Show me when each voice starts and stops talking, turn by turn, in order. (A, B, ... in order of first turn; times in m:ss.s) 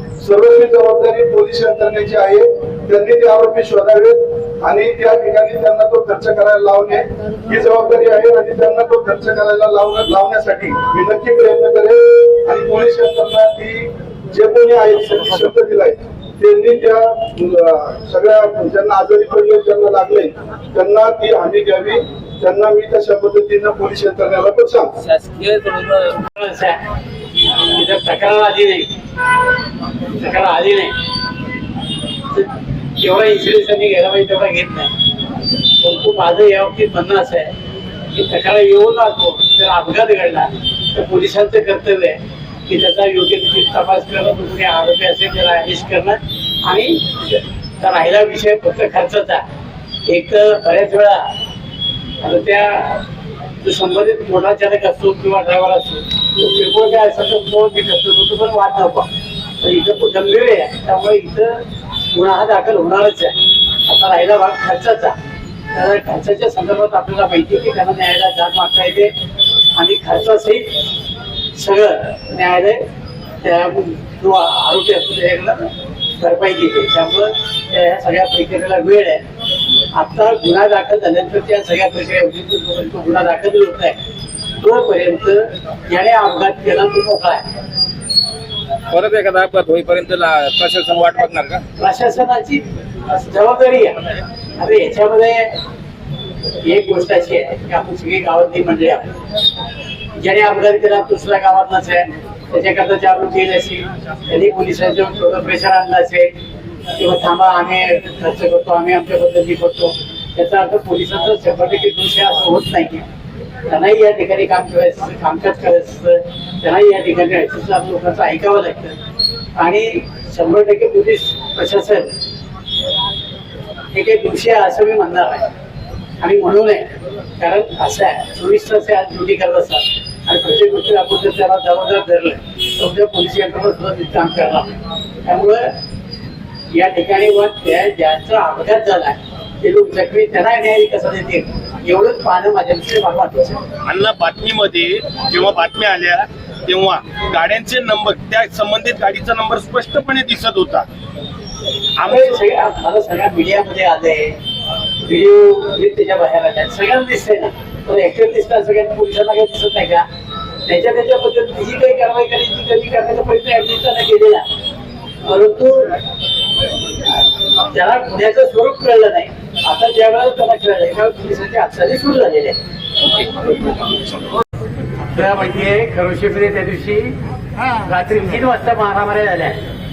0:00.2-0:24.9 A
0:25.0-0:26.2 B
0:26.4-0:26.8 C
0:27.4-0:28.9 C
0:30.1-0:31.0 C
0:32.3-0:34.9 C
0:35.8-0:37.5 C
0:38.1-0:49.4 C
0:50.0-0:51.3 C
0:52.2-0:53.0 C
0:53.6-0:59.1 C
0:59.6-1:01.6 C
1:02.1-1:05.2 C
1:05.7-1:09.1 C
1:09.8-1:10.8 C
1:11.5-1:12.8 C
1:13.4-1:19.2 C
1:19.9-1:24.0 C
1:24.6-1:27.4 C
1:28.9-1:31.6 B
1:31.8-1:35.6 C
1:36.6-1:39.2 C
1:40.1-1:46.3 C
1:46.9-1:53.1 C
1:53.7-1:59.0 C
1:59.6-2:02.2 C
2:03.9-2:05.5 C
2:06.2-2:15.7 C
2:16.7-2:23.6 C
2:23.8-2:30.9 D
2:32.0-2:32.4 D
2:32.0-2:34.4 C
2:35.0-2:40.0 C
2:40.6-2:44.5 C
2:45.2-2:46.0 C
2:47.0-2:52.6 C
2:55.0-2:57.2 C
2:57.7-2:59.6 C